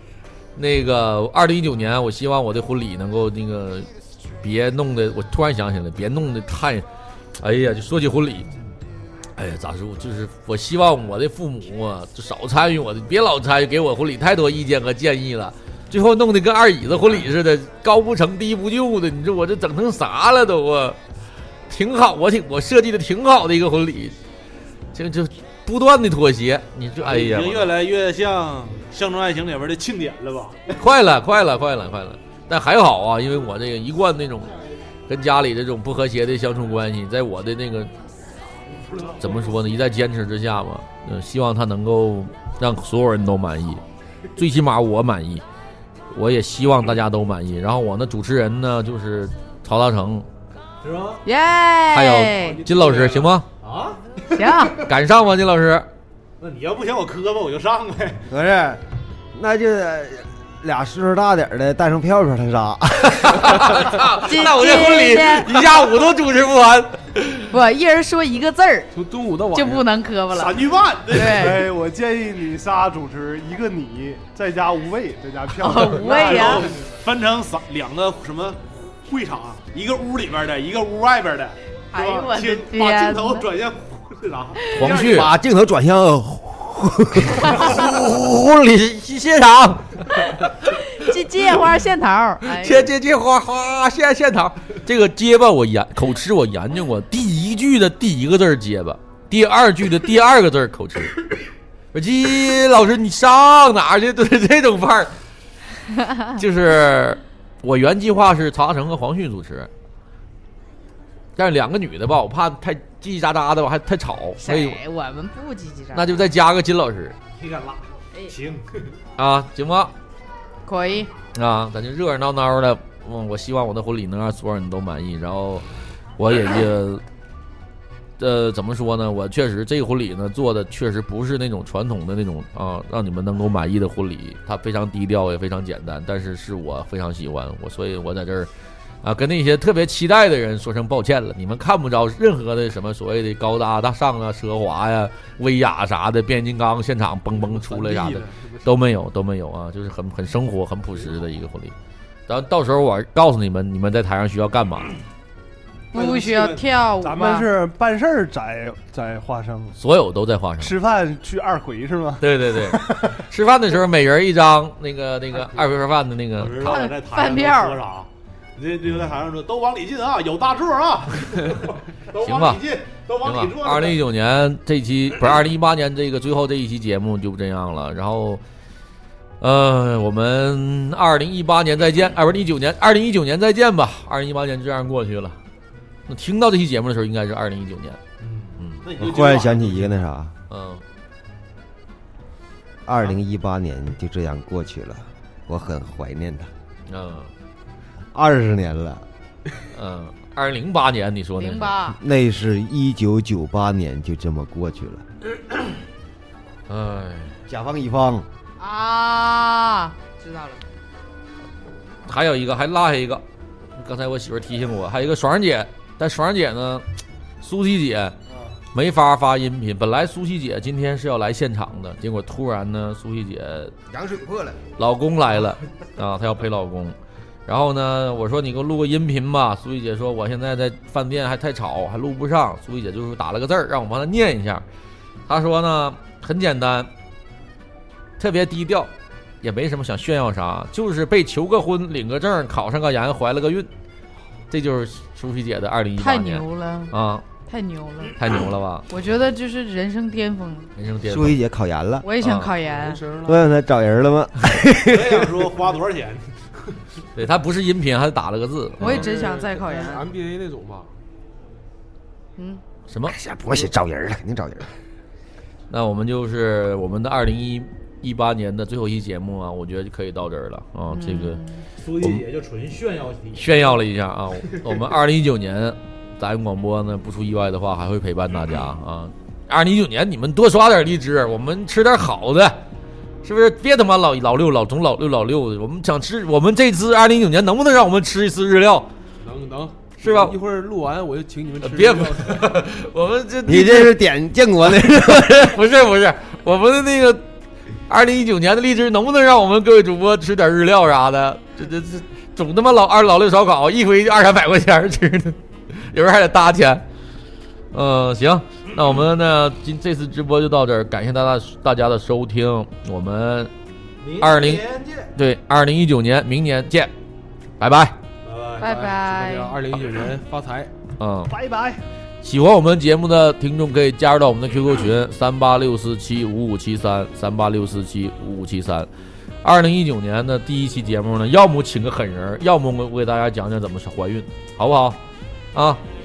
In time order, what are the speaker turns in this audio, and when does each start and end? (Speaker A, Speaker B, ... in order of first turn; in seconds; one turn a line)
Speaker A: 0.6-3.9
Speaker A: 4.4-6.8
Speaker A: 7.4-8.5
Speaker A: 9.3-21.0
Speaker A: 21.7-24.1
Speaker A: 24.9-27.7
Speaker B: 27.0-30.8
Speaker A: 30.8-34.6
Speaker A: 35.1-37.9
Speaker A: 39.2-43.8
Speaker A: 44.4-45.4
Speaker A: 46.1-50.3
Speaker B: 50.8-51.2
Speaker C: 51.2-52.6
Speaker A: 51.9-53.5
Speaker B: 52.6-54.7
Speaker C: 54.4-54.8
Speaker A: 54.8-55.9
Speaker B: 56.4-58.2
Speaker D: 58.3-58.8
Speaker D: 59.3-63.8
Speaker A: 63.1-67.5
Speaker C: 64.2-65.5
Speaker C: 67.5-68.9
Speaker E: 68.9-69.9
Speaker C: 69.5-71.6
Speaker B: 70.3-71.7
Speaker F: 71.5-76.6
Speaker C: 75.6-76.7
Speaker B: 76.0-85.3
Speaker C: 81.9-83.5
Speaker A: 84.7-85.3
Speaker D: 84.9-88.2
Speaker A: 87.7-90.5
Speaker C: 90.7-92.9
Speaker A: 92.5-101.2
Speaker A: 101.9-105.1
Speaker A: 106.3-109.7
Speaker A: 111.3-114.8
Speaker C: 114.4-116.2
Speaker A: 115.9-117.2
Speaker B: 117.4-118.9
Speaker A: 119.2-119.9
Speaker C: 120.6-121.1
Speaker A: 121.3-125.6
Speaker A: 126.2-127.0
Speaker A: 128.2-138.5
Speaker A: 139.0-151.7
Speaker B: 147.5-148.2
Speaker A: 152.3-154.9
Speaker B: 155.9-156.7
Speaker C: 155.9-157.5
Speaker F: 157.0-159.8
Speaker A: 159.8-160.7
Speaker F: 160.6-163.2
Speaker A: 162.2-166.7
Speaker B: 166.4-174.0
Speaker C: 166.6-167.8
Speaker A: 172.2-172.6
Speaker A: 173.2-178.4
Speaker A: 179.4-185.4
Speaker A: 186.1-188.0
Speaker B: 188.2-190.1
Speaker D: 188.9-190.3
Speaker A: 190.5-190.8
Speaker D: 192.8-196.5
Speaker A: 196.9-197.3
Speaker D: 198.1-199.0
Speaker A: 199.7-201.8
Speaker C: 201.4-202.0
Speaker D: 201.9-205.0
Speaker A: 206.7-207.4
Speaker D: 207.5-208.3
Speaker C: 208.6-210.6
Speaker A: 212.1-213.2
Speaker A: 213.8-216.8
Speaker A: 217.4-218.2
Speaker A: 218.7-223.7
Speaker D: 223.9-224.6
Speaker A: 224.8-226.9
Speaker A: 227.5-234.6
Speaker A: 235.3-236.9
Speaker A: 238.2-238.9
Speaker A: 239.4-243.7
Speaker A: 244.5-247.2
Speaker C: 246.0-246.9
Speaker C: 247.5-248.1
Speaker A: 248.2-248.8
Speaker C: 248.9-250.7
Speaker A: 250.8-251.3
Speaker D: 251.0-252.0
Speaker C: 252.0-253.0
Speaker A: 252.2-252.5
Speaker E: 252.7-253.5
Speaker D: 253.2-255.5
Speaker B: 254.9-256.8
Speaker A: 257.1-259.1
Speaker E: 258.8-260.9
Speaker C: 258.8-260.1
Speaker C: 262.4-262.6
Speaker A: 262.9-263.1
Speaker D: 263.1-264.7
Speaker A: 265.7-271.4
Speaker C: 270.9-271.6
Speaker B: 271.8-273.8
Speaker A: 272.0-272.2
Speaker A: 273.3-282.6
Speaker A: 283.2-288.9
Speaker E: 289.2-292.6
Speaker A: 290.0-290.4
Speaker A: 291.6-294.0
Speaker D: 293.5-295.6
Speaker A: 295.2-297.2
Speaker A: 297.9-306.8
Speaker A: 307.7-313.5
Speaker B: 314.0-315.1
Speaker A: 314.1-316.9
Speaker A: 317.6-318.0
Speaker B: 318.2-318.6
Speaker C: 318.6-319.5
Speaker E: 318.6-320.7
Speaker A: 321.0-321.3
Speaker F: 321.3-321.8
Speaker A: 322.2-328.9
Speaker A: 329.4-335.0
Speaker A: 335.5-335.8